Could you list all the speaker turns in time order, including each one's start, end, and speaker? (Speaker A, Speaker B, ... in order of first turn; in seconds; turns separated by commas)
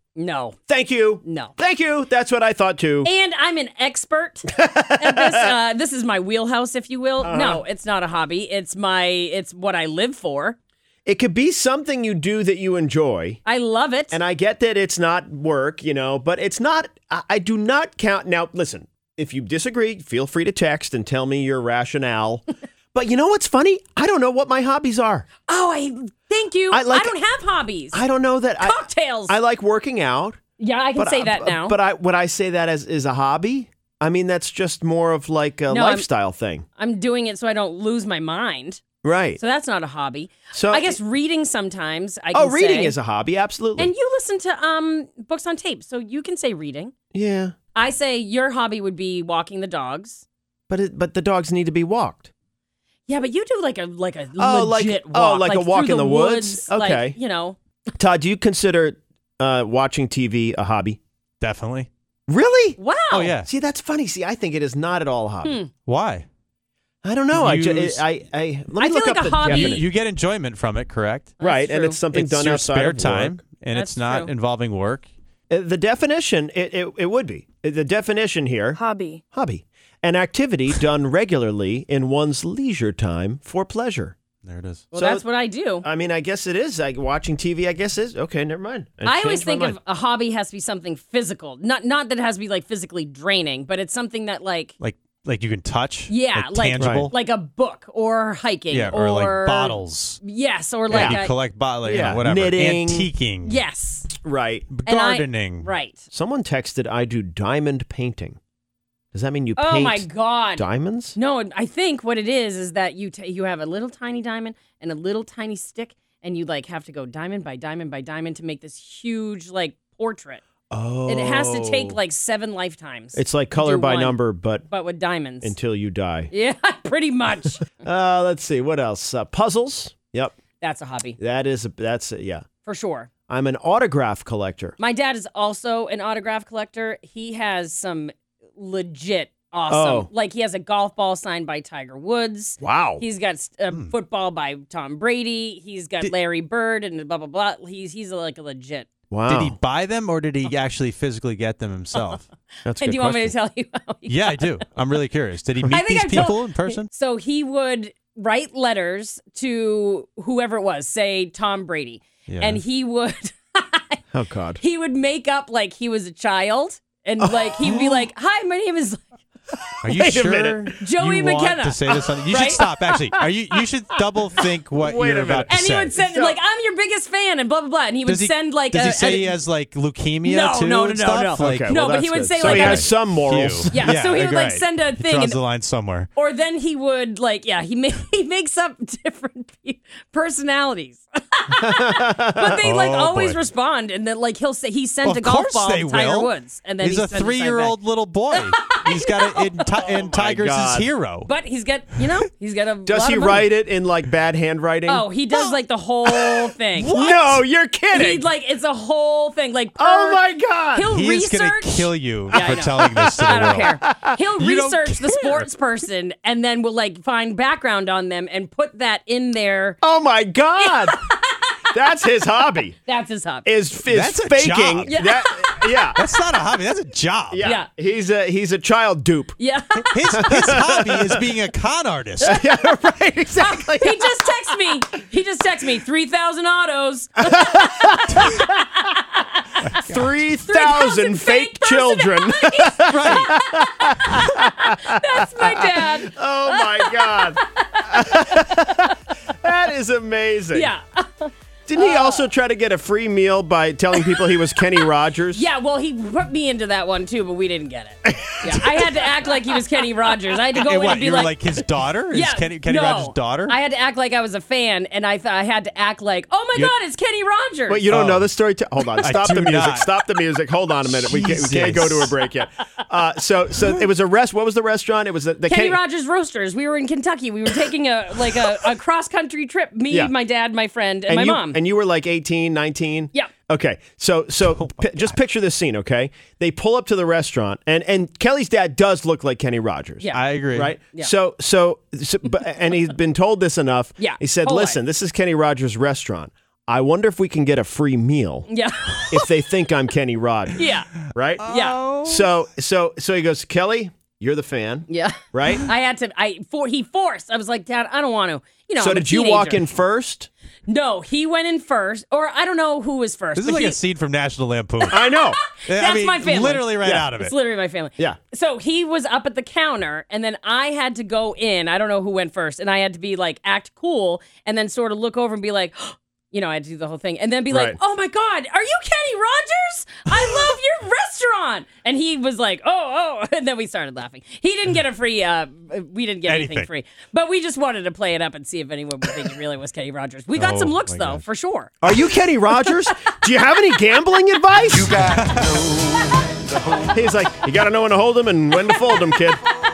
Speaker A: 0.2-0.6, Speaker B: 0.7-3.1, Speaker A: 1.2-1.5, Speaker A: 3.0-10.6, Speaker B: 4.5-5.5, Speaker B: 7.2-7.6, Speaker B: 11.1-13.4, Speaker A: 13.4-14.2, Speaker B: 14.1-25.3, Speaker A: 25.5-28.0, Speaker B: 26.7-27.2, Speaker B: 27.9-30.4, Speaker A: 28.6-29.3, Speaker A: 30.6-31.8, Speaker B: 31.0-36.6, Speaker A: 35.7-36.1, Speaker A: 36.8-38.9, Speaker B: 39.0-39.4, Speaker A: 39.4-43.0, Speaker B: 40.5-41.0, Speaker B: 42.3-43.9, Speaker A: 43.8-46.9, Speaker B: 47.1-47.5, Speaker A: 47.8-50.2, Speaker B: 50.7-52.3, Speaker A: 53.1-57.6, Speaker B: 54.4-57.2, Speaker B: 58.0-61.0, Speaker C: 61.4-61.9, Speaker B: 62.3-62.8, Speaker A: 62.8-63.4, Speaker C: 63.1-63.5, Speaker B: 63.4-65.6, Speaker A: 65.4-65.7, Speaker C: 65.9-66.3, Speaker B: 67.0-69.8, Speaker C: 67.3-68.0, Speaker A: 68.8-69.8, Speaker C: 69.5-71.4, Speaker A: 71.4-72.0, Speaker B: 71.4-73.4, Speaker C: 72.1-75.1, Speaker A: 73.7-74.3, Speaker B: 75.5-78.8, Speaker A: 78.8-79.2, Speaker B: 79.3-84.2, Speaker C: 84.4-84.9, Speaker A: 84.9-85.8, Speaker B: 84.9-85.2, Speaker B: 85.8-89.8, Speaker A: 89.0-94.7, Speaker C: 94.8-97.1, Speaker A: 96.1-101.3, Speaker B: 96.8-97.1, Speaker C: 98.7-100.2, Speaker C: 100.9-103.6, Speaker B: 100.9-101.2, Speaker B: 101.8-103.1, Speaker A: 103.4-104.1, Speaker B: 104.2-104.7, Speaker C: 104.7-105.7, Speaker A: 104.9-106.0, Speaker B: 106.1-108.4, Speaker B: 109.1-111.2, Speaker A: 109.6-110.6, Speaker A: 111.2-120.4, Speaker B: 120.7-122.0, Speaker A: 121.0-125.6, Speaker B: 123.2-124.7, Speaker B: 125.4-126.3, Speaker A: 126.3-127.7, Speaker B: 127.8-130.3, Speaker A: 130.6-131.2, Speaker B: 131.2-132.5, Speaker A: 132.6-133.1, Speaker B: 133.3-134.8, Speaker A: 134.8-148.9, Speaker B: 139.7-140.1, Speaker B: 142.6-143.0, Speaker B: 149.1-149.6, Speaker C: 149.3-152.3, Speaker B: 152.7-153.3, Speaker A: 152.8-154.6, Speaker C: 154.1-156.9, Speaker A: 155.7-164.0, Speaker C: 162.3-162.6, Speaker B: 164.1-164.6, Speaker A: 164.6-169.0, Speaker B: 167.2-168.1, Speaker B: 169.5-170.7, Speaker C: 169.8-176.0, Speaker A: 170.8-172.7, Speaker B: 174.8-176.4, Speaker A: 175.5-179.4, Speaker C: 178.1-181.8, Speaker A: 180.2-183.0, Speaker B: 181.4-183.9, Speaker C: 182.4-186.1, Speaker A: 183.7-185.4, Speaker A: 186.2-197.8, Speaker B: 191.6-192.6, Speaker C: 192.6-193.4, Speaker C: 195.0-201.3, Speaker A: 198.3-199.8, Speaker B: 200.0-200.9, Speaker A: 201.3-203.5, Speaker B: 202.9-205.5, Speaker A: 204.9-207.2, Speaker B: 206.1-208.3, Speaker C: 206.8-207.3, Speaker A: 207.9-219.8, Speaker B: 209.8-210.9, Speaker C: 210.9-213.7, Speaker B: 212.4-214.1, Speaker C: 214.4-215.5, Speaker B: 219.8-221.0, Speaker A: 220.6-221.7, Speaker B: 221.7-222.8, Speaker A: 222.9-223.5, Speaker B: 223.4-226.0, Speaker C: 223.9-225.0, Speaker A: 224.9-225.8, Speaker C: 225.9-227.5, Speaker B: 227.3-229.4, Speaker A: 229.4-230.6, Speaker C: 229.8-232.4, Speaker B: 230.1-231.2, Speaker B: 232.2-234.6, Speaker A: 233.4-239.9, Speaker B: 237.2-238.6, Speaker B: 239.7-250.7, Speaker A: 240.5-249.0, Speaker C: 242.9-243.3, Speaker A: 250.5-252.3, Speaker B: 251.7-255.5, Speaker A: 253.9-261.5, Speaker B: 258.1-259.3, Speaker C: 260.5-263.6, Speaker A: 262.1-267.8, Speaker B: 267.7-275.8, Speaker C: 267.9-268.3, Speaker C: 269.0-269.9, Speaker C: 270.9-272.1, Speaker A: 275.5-281.6, Speaker B: 281.1-305.7, Speaker C: 284.5-285.2, Speaker C: 290.1-290.7, Speaker A: 294.0-294.8, Speaker A: 298.5-299.3, Speaker A: 300.6-301.0, Speaker C: 301.4-302.3, Speaker A: 301.5-301.8, Speaker A: 304.9-309.6, Speaker B: 308.8-310.3, Speaker A: 310.7-313.8, Speaker C: 313.4-317.3, Speaker A: 314.8-341.8, Speaker B: 314.9-315.4, Speaker B: 327.5-327.8, Speaker C: 336.3-336.7, Speaker C: 340.4-341.2, Speaker B: 341.8-345.1, Speaker A: 342.5-342.9, Speaker D: 344.7-346.9, Speaker C: 345.1-345.7, Speaker B: 346.9-349.4